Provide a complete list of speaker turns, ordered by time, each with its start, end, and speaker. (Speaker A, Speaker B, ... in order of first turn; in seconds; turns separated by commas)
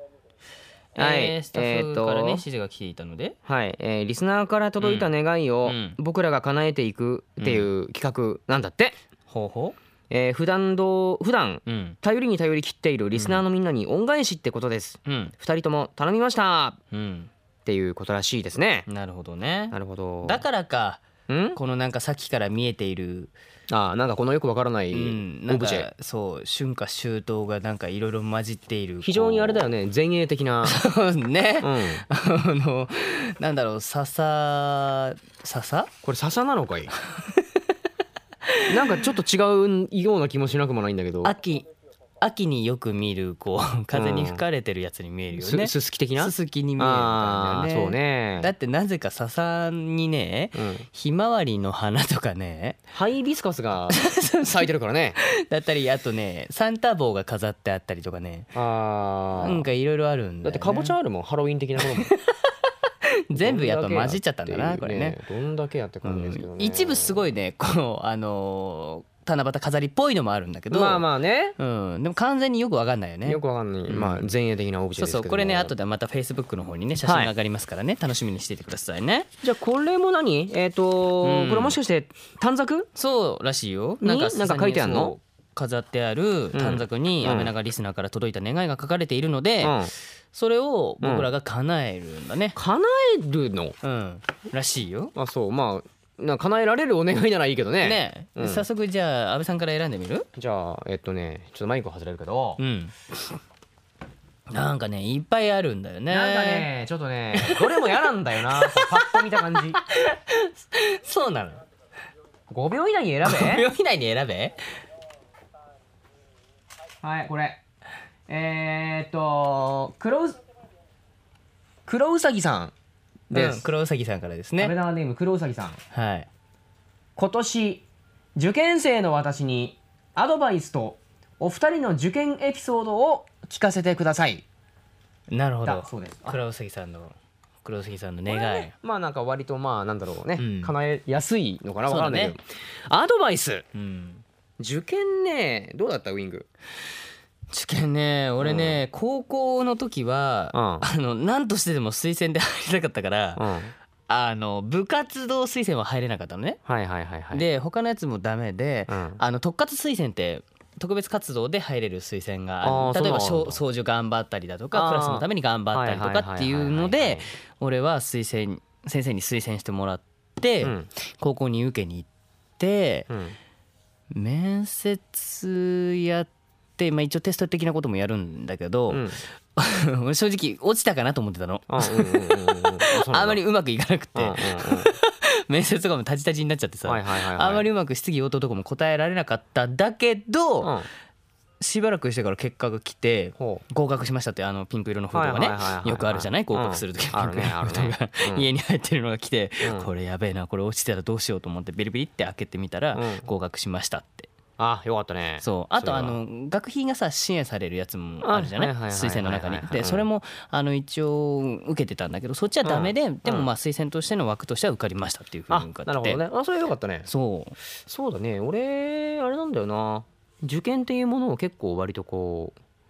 Speaker A: 0.9-3.4, Speaker B: 0.9-2.4, Speaker B: 3.5-9.0, Speaker A: 4.8-5.1, Speaker A: 5.6-6.0, Speaker A: 7.4-7.7, Speaker A: 9.3-9.8, Speaker B: 10.1-16.8, Speaker A: 11.7-12.0, Speaker A: 13.2-13.4, Speaker A: 15.1-15.3, Speaker A: 16.9-17.3, Speaker B: 17.6-18.9, Speaker A: 18.9-23.3, Speaker B: 19.7-20.4, Speaker B: 21.3-21.6, Speaker B: 23.7-25.9, Speaker A: 24.9-29.7, Speaker B: 29.0-30.8, Speaker A: 30.6-35.9, Speaker B: 31.6-32.0, Speaker B: 36.0-36.9, Speaker A: 38.5-39.1, Speaker B: 38.7-41.3, Speaker A: 41.2-41.6, Speaker A: 42.2-52.8, Speaker B: 43.9-44.4, Speaker B: 45.3-48.5, Speaker B: 50.5-50.9, Speaker B: 52.9-55.2, Speaker A: 53.9-54.6, Speaker A: 55.2-58.5, Speaker B: 58.5-59.6, Speaker A: 59.4-60.9, Speaker B: 60.4-62.1, Speaker A: 63.0-65.2, Speaker B: 63.3-67.2, Speaker A: 66.0-71.0, Speaker B: 70.7-71.5, Speaker A: 71.6-74.3, Speaker B: 73.2-75.7, Speaker A: 75.0-79.3, Speaker B: 77.0-77.3, Speaker B: 79.4-82.9, Speaker A: 81.2-81.8, Speaker A: 83.0-89.8, Speaker B: 84.0-85.1, Speaker B: 86.5-87.5, Speaker B: 89.6-89.9, Speaker A: 90.3-92.6, Speaker B: 91.0-91.3, Speaker B: 92.5-93.8, Speaker A: 93.8-95.1, Speaker B: 95.1-98.6, Speaker A: 97.8-100.3, Speaker B: 100.3-102.6, Speaker A: 102.6-102.9, Speaker A: 104.5-106.7, Speaker B: 106.1-109.8, Speaker A: 107.4-111.6, Speaker B: 112.5-113.7, Speaker A: 113.2-114.5, Speaker B: 117.0-117.6, Speaker B: 118.3-120.4, Speaker B: 121.8-122.7, Speaker B: 123.3-123.6, Speaker A: 123.3-124.7, Speaker B: 124.6-125.8, Speaker A: 125.9-126.3, Speaker B: 127.2-127.8, Speaker B: 128.3-134.4, Speaker A: 135.3-138.7, Speaker B: 135.6-136.4, Speaker B: 138.3-143.7, Speaker A: 140.4-140.7, Speaker A: 141.9-142.4, Speaker A: 143.7-144.2, Speaker B: 144.6-146.5, Speaker A: 147.5-153.4, Speaker B: 148.4-148.8, Speaker B: 150.5-150.8, Speaker B: 153.4-153.7, Speaker A: 154.1-156.6, Speaker B: 156.7-157.4, Speaker A: 157.3-172.1, Speaker B: 158.9-159.2, Speaker B: 162.6-163.6, Speaker B: 164.7-167.3, Speaker B: 170.6-170.9, Speaker A: 172.6-173.1, Speaker B: 173.1-173.4, Speaker A: 174.1-190.7, Speaker B: 178.9-179.2, Speaker B: 181.7-183.4, Speaker B: 184.1-184.9, Speaker B: 186.8-187.7, Speaker B: 190.6-190.9, Speaker A: 191.6-204.3, Speaker B: 193.4-193.6, Speaker B: 195.1-198.5, Speaker B: 199.6-199.9, Speaker B: 202.9-203.3, Speaker B: 204.6-206.2, Speaker A: 205.4-216.2, Speaker B: 208.2-210.0, Speaker B: 212.6-213.5, Speaker B: 215.5-217.1, Speaker A: 217.1-217.6, Speaker B: 217.8-222.6